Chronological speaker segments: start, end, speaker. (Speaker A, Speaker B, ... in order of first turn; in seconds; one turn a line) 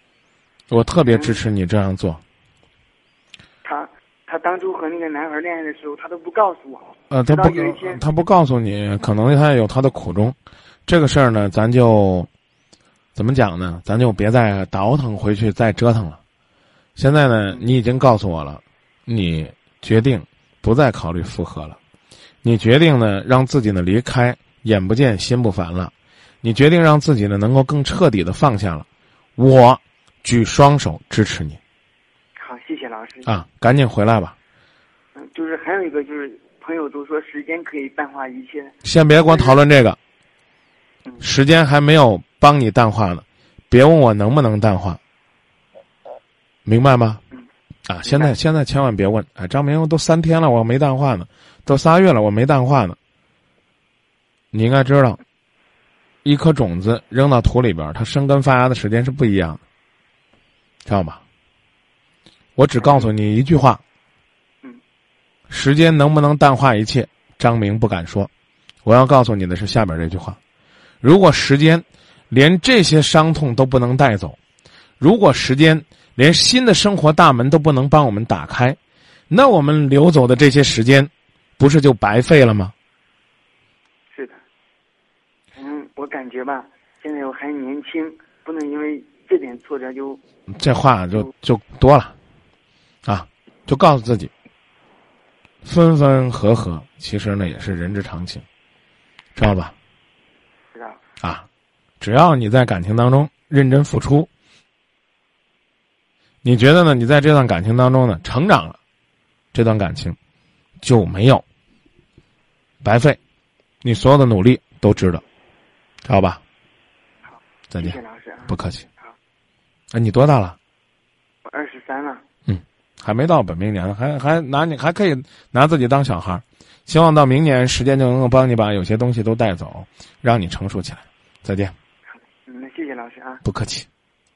Speaker A: 0.7-2.2
Speaker B: 1.0-1.4
Speaker B: 3.6-8.0
Speaker A: 7.1-10.4
Speaker A: 10.9-12.3
Speaker A: 13.2-16.2
Speaker A: 17.0-21.8
Speaker A: 22.4-28.9
Speaker A: 29.4-31.6
Speaker B: 32.4-33.3
Speaker A: 33.3-34.4
Speaker B: 35.1-39.6
Speaker A: 38.8-40.0
Speaker A: 41.2-45.0
Speaker A: 46.7-47.2
Speaker A: 47.9-53.0
Speaker B: 48.0-48.3
Speaker A: 54.5-55.2
Speaker A: 56.2-59.6
Speaker A: 60.9-61.2
Speaker A: 62.6-63.8
Speaker B: 62.8-63.1
Speaker A: 65.5-68.3
Speaker A: 68.8-70.4
Speaker A: 71.0-74.4
Speaker A: 75.0-78.8
Speaker A: 79.3-82.7
Speaker B: 84.1-84.4
Speaker B: 85.5-90.2
Speaker A: 90.5-92.2
Speaker A: 93.0-94.3
Speaker A: 95.6-98.4
Speaker A: 99.4-99.7
Speaker B: 100.8-101.0
Speaker A: 102.0-104.3
Speaker A: 106.4-108.8
Speaker A: 109.5-110.2
Speaker A: 110.8-111.4
Speaker A: 112.8-113.2
Speaker A: 113.8-115.2
Speaker A: 116.0-116.4
Speaker B: 117.3-119.2
Speaker A: 117.7-118.0
Speaker A: 118.5-118.8
Speaker A: 119.9-120.6
Speaker B: 121.5-122.2
Speaker A: 122.5-131.7
Speaker B: 132.1-133.4
Speaker A: 133.4-133.9